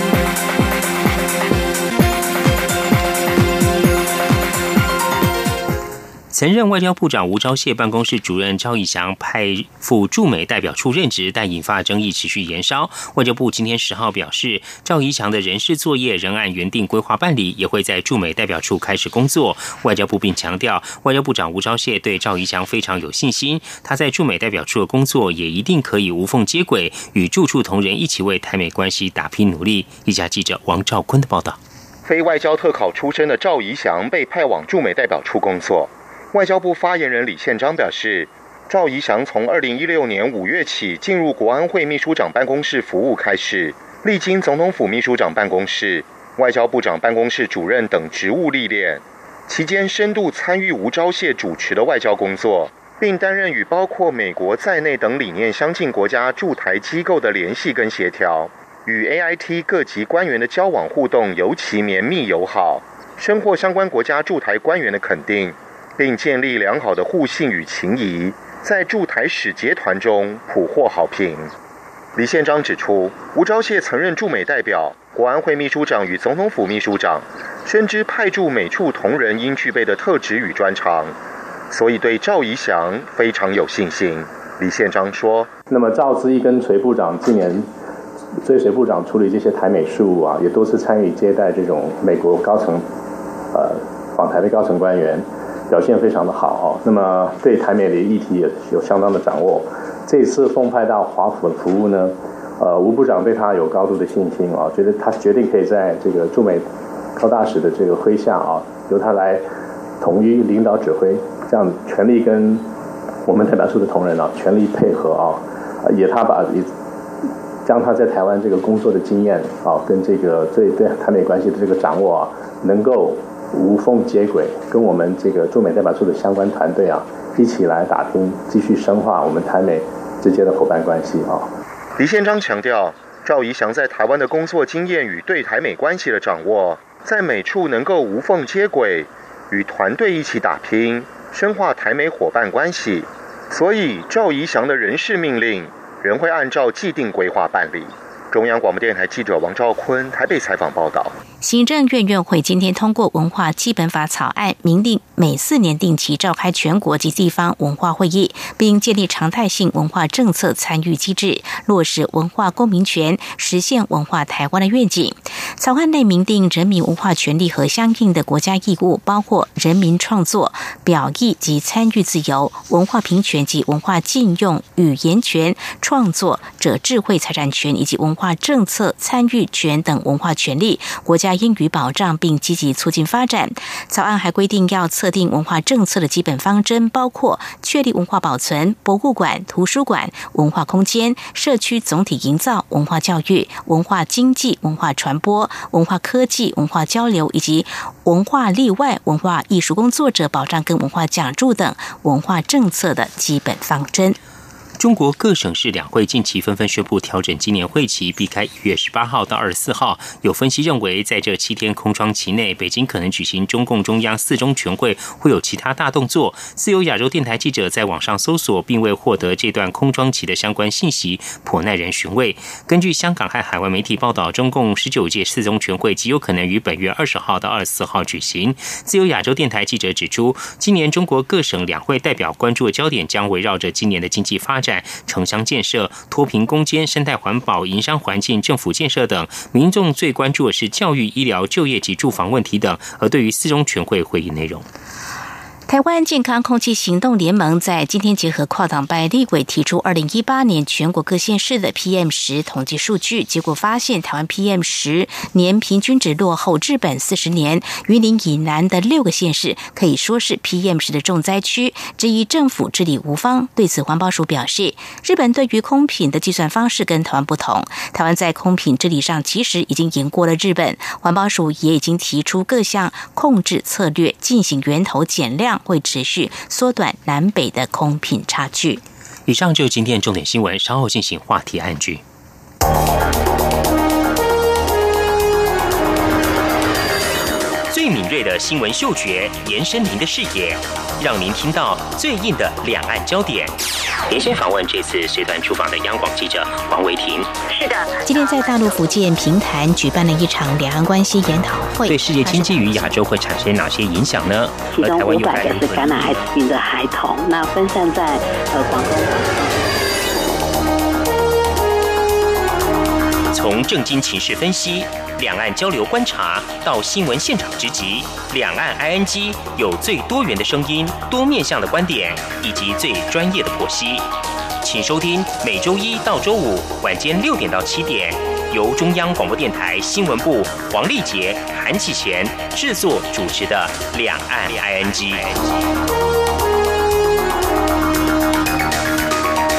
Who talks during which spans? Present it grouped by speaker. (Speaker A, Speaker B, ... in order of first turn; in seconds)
Speaker A: 6.3-31.6, 204.8-244.6, 279.3-282.0, 287.7-293.5, 294.1-297.3, 301.9-306.0, 313.3-324.1, 324.6-335.3
Speaker B: 32.0-71.5, 72.1-81.1, 81.7-85.5, 132.0-151.1
Speaker C: 85.7-87.7, 88.4-92.8, 93.5-109.4, 110.0-112.6, 113.2-116.7, 117.6-131.5
Speaker D: 151.4-204.2, 245.7-278.8, 298.0-302.8
Speaker E: 297.6-297.9, 304.7-309.4